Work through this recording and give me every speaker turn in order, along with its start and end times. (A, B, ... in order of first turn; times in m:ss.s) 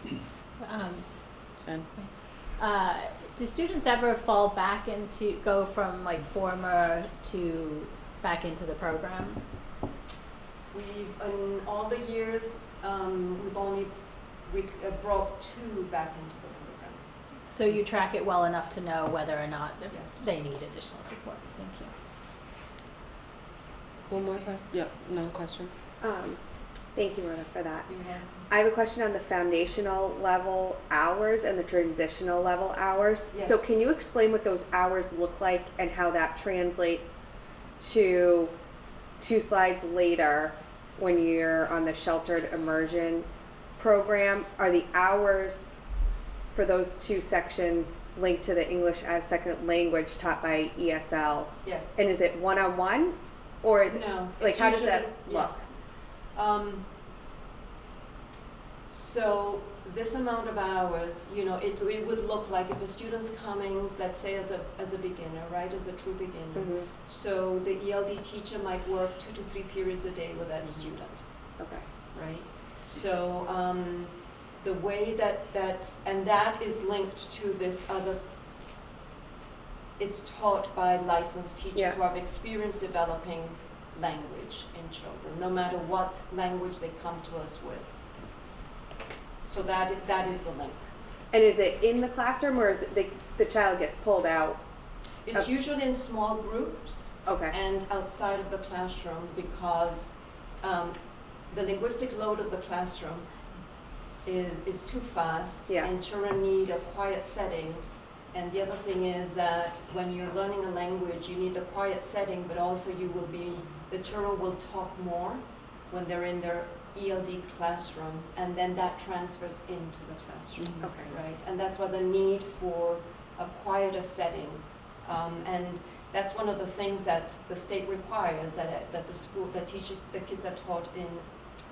0:00.6-0:09.4 A
0:01.6-0:01.9 B
0:10.7-0:13.9 C
0:14.4-0:17.0 C
0:17.5-0:21.9 A
0:19.9-0:20.2 C
0:24.1-0:25.7 B
0:26.0-0:26.4 D
0:26.9-0:27.9 D
0:27.9-0:28.5 C
0:28.5-0:37.3 D
0:33.3-0:33.6 C
0:37.8-0:38.5 D
0:39.2-0:45.8 D
0:46.5-0:55.6 D
0:51.6-0:52.0 C
0:53.9-0:55.6 C
0:56.3-0:56.8 C
0:58.9-1:11.2 C
1:06.5-1:06.9 D
1:11.6-1:11.8 D
1:12.1-1:18.2 C
1:20.0-1:27.9 C
1:29.4-1:30.8 C
1:31.3-1:34.6 D
1:35.2-1:41.0 C
1:37.2-1:37.5 D
1:41.5-1:43.2 C
1:44.2-2:11.3 C
2:00.6-2:00.9 B
2:00.8-2:01.1 D